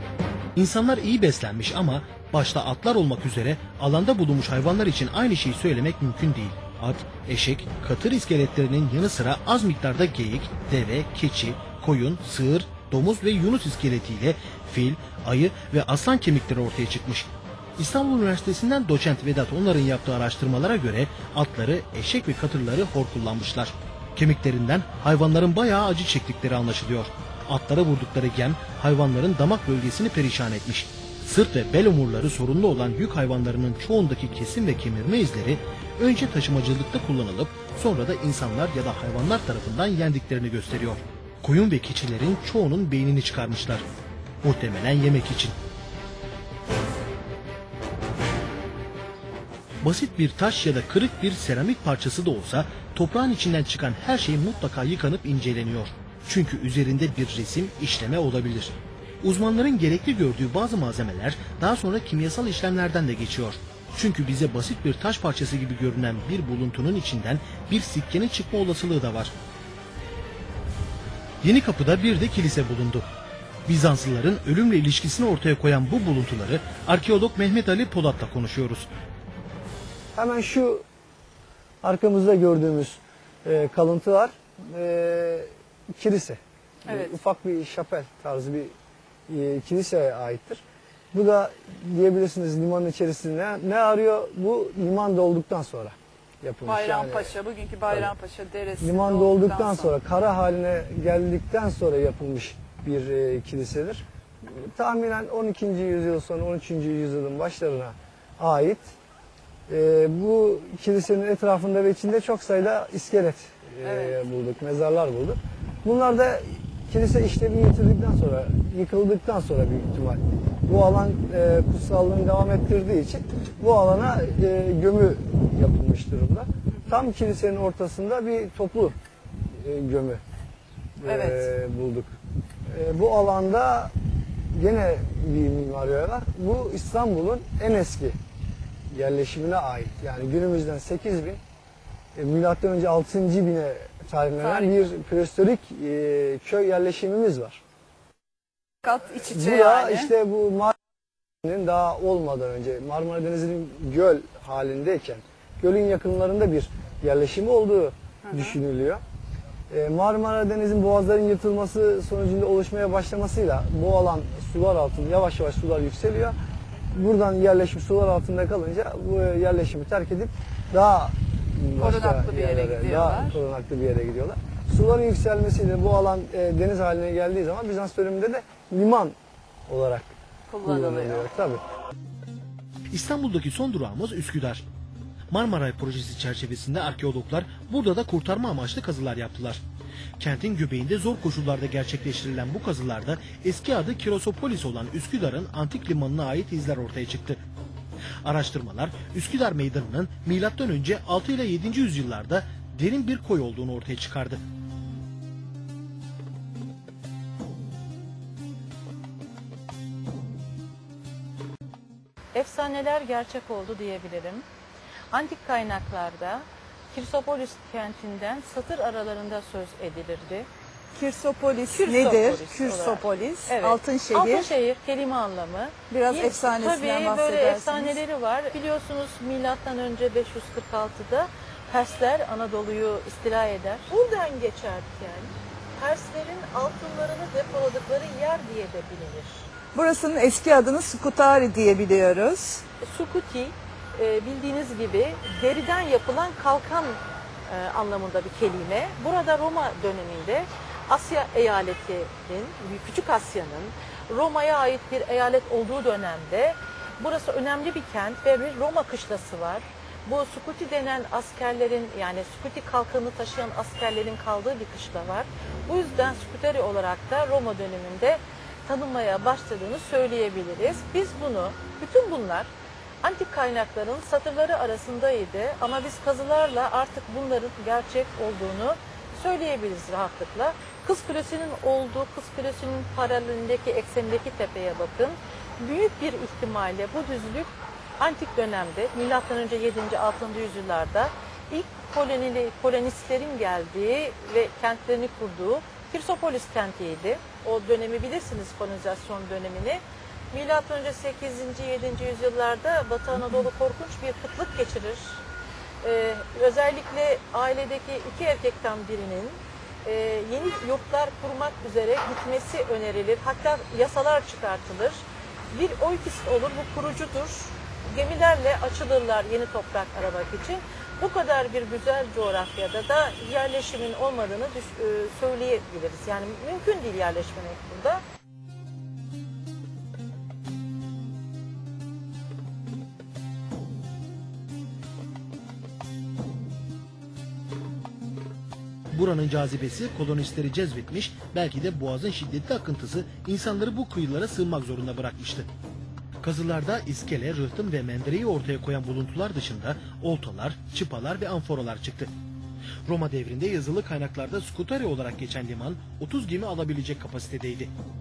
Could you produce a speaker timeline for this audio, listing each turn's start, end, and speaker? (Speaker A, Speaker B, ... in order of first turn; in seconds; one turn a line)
Speaker A: 0.6-43.8
Speaker A: 44.4-45.5
Speaker A: 49.8-69.3
Speaker A: 71.4-73.0
Speaker A: 73.7-78.9
Speaker B: 80.1-80.8
Speaker B: 81.8-88.7
Speaker C: 86.9-87.1
Speaker B: 89.3-97.3
Speaker C: 96.6-99.9
Speaker B: 98.8-108.9
Speaker B: 109.7-128.9
Speaker C: 113.8-114.2
Speaker B: 129.6-130.2
Speaker B: 131.0-132.1
Speaker C: 131.0-131.5
Speaker B: 132.7-133.9
Speaker B: 134.5-138.2
Speaker B: 138.9-141.4
Speaker B: 142.2-147.6
Speaker C: 144.4-144.9
Speaker C: 148.8-150.1
Speaker B: 149.3-150.7
Speaker B: 151.4-159.0
Speaker C: 158.3-158.6
Speaker B: 159.7-166.3
Speaker B: 166.9-179.2
Speaker C: 171.8-173.4
Speaker B: 179.7-180.1
Speaker C: 180.5-181.3
Speaker B: 180.6-181.6
Speaker A: 182.9-184.6
Speaker A: 185.3-189.6
Speaker A: 190.2-197.4
Speaker A: 198.2-204.4
Speaker D: 212.3-214.4
Speaker D: 215.1-220.5
Speaker C: 221.0-224.5
Speaker D: 221.7-239.5
Speaker C: 225.9-228.0
Speaker C: 239.8-240.3
Speaker E: 239.8-242.5
Speaker C: 241.6-242.6
Speaker D: 242.8-272.5
Speaker D: 273.0-305.2
Speaker D: 305.8-328.0
Speaker A: 338.9-345.5
Speaker A: 346.2-352.1
Speaker A: 352.9-357.7